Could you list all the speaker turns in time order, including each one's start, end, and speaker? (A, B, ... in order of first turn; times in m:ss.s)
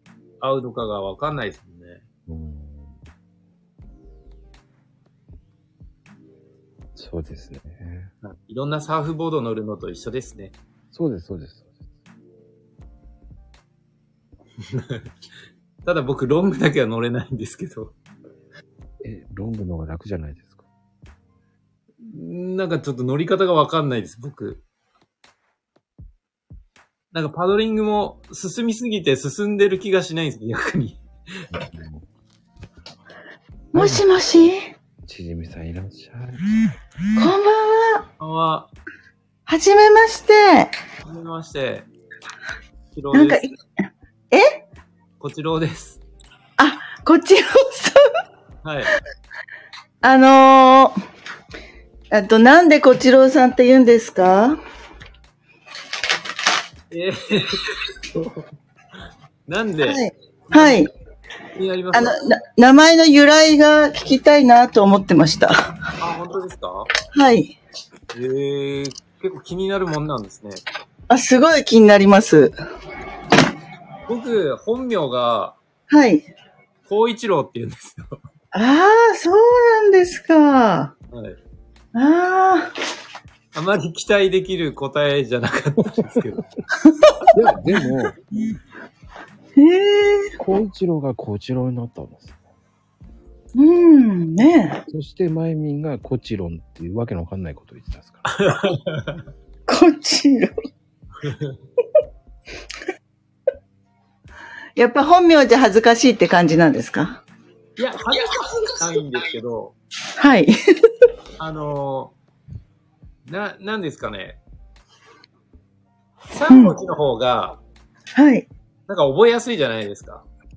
0:00.4-0:02.0 A
0:02.3-0:03.0 B
0:07.0-0:08.1 B
0:08.2-0:10.6 A
0:10.9-0:11.7 B
0:14.7-0:15.1 A
0:15.8-0:18.0 A
0:19.0-0:20.6 B
0:22.0-0:24.6 A
0:27.1-0:31.0 A
0:31.5-0:32.0 B
0:33.7-0:34.1 B
0:33.7-0:34.7 C
0:35.0-0:36.4 B
0:37.2-0:38.0 C
0:38.2-0:38.7 A
0:39.5-0:40.7 C
0:41.0-0:41.9 A
0:42.9-0:43.4 A
0:43.1-0:43.5 C
0:44.3-0:44.6 C
0:45.2-0:46.0 A
0:46.6-0:48.0 C
0:48.6-0:48.9 A
0:50.0-0:51.0 C
0:52.1-0:54.6 C
0:56.9-0:58.4 A
0:59.5-1:00.9 A
0:59.8-1:00.9 C
1:01.6-1:02.2 A
1:01.9-1:05.5 C
1:06.0-1:06.9 A
1:07.1-1:07.6 C
1:08.1-1:10.6 A
1:11.1-1:12.5 C
1:14.1-1:15.6 A
1:15.9-1:16.3 C
1:16.9-1:18.2 A
1:18.5-1:20.9 C
1:21.1-1:21.4 A
1:21.9-1:22.7 C
1:23.5-1:26.5 A
1:27.3-1:28.2 B
1:29.6-1:30.4 C
1:30.4-1:32.4 B
1:33.6-1:34.8 C
1:34.9-1:38.3 B
1:38.3-1:39.2 A
1:39.7-1:40.5 C
1:41.2-1:41.6 A
1:44.8-1:47.2 C
1:47.8-1:49.8 A
1:50.2-1:50.5 C
1:51.4-1:52.2 A
1:53.3-1:54.4 A
1:56.3-1:57.6 A
1:56.5-1:56.8 C
1:58.2-1:58.5 C
1:58.9-2:00.3 A